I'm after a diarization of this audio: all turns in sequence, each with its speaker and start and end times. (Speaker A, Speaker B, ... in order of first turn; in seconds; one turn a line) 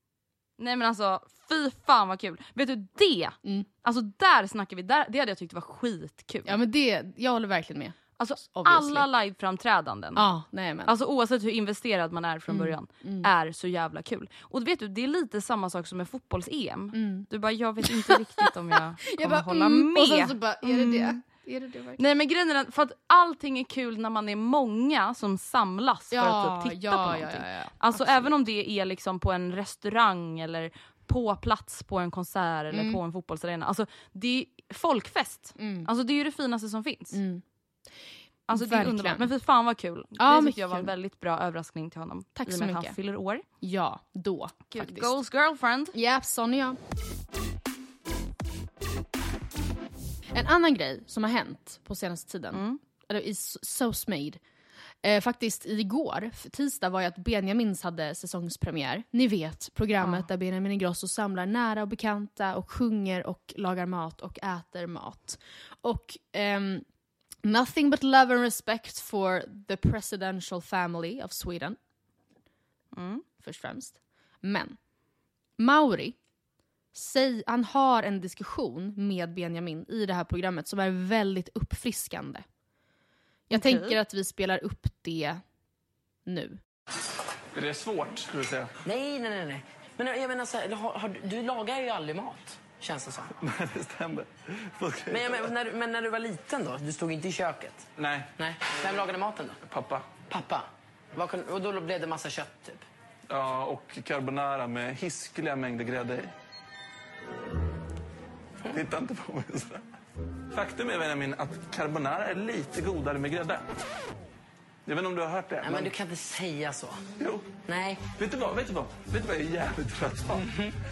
Speaker A: 0.6-6.6
Speaker B: 6.5-9.0
Speaker A: 8.2-10.3
Speaker B: 10.2-10.9
Speaker A: 10.9-21.2
Speaker B: 12.5-13.3
Speaker B: 16.9-17.3
Speaker B: 17.9-18.1
Speaker B: 19.1-22.0
Speaker A: 22.0-37.2
Speaker B: 26.1-28.3
Speaker B: 32.7-33.0
Speaker B: 35.6-35.9
Speaker B: 37.1-37.4
Speaker A: 38.5-43.4
Speaker B: 38.5-39.3
Speaker B: 40.2-40.9
Speaker B: 42.4-43.0
Speaker B: 43.6-45.1
Speaker A: 44.7-46.0
Speaker B: 46.0-46.8
Speaker B: 50.4-54.4
Speaker A: 52.5-52.8
Speaker B: 55.0-66.8
Speaker A: 60.0-60.3
Speaker B: 67.4-71.8
Speaker A: 73.0-73.2
Speaker B: 73.4-74.8
Speaker B: 75.6-76.2
Speaker B: 76.9-82.5
Speaker B: 83.5-85.4
Speaker A: 83.5-84.0
Speaker B: 86.3-86.6
Speaker C: 87.5-88.7
Speaker D: 88.9-93.3
Speaker C: 93.4-95.4
Speaker D: 95.1-97.9
Speaker C: 98.0-98.3
Speaker D: 98.4-99.6
Speaker C: 99.7-100.2
Speaker D: 100.2-102.8
Speaker C: 103.3-106.3
Speaker C: 108.7-109.8
Speaker C: 110.5-113.7
Speaker C: 114.9-115.9
Speaker D: 115.6-117.0
Speaker C: 117.2-120.5
Speaker D: 117.7-118.0
Speaker D: 120.4-120.7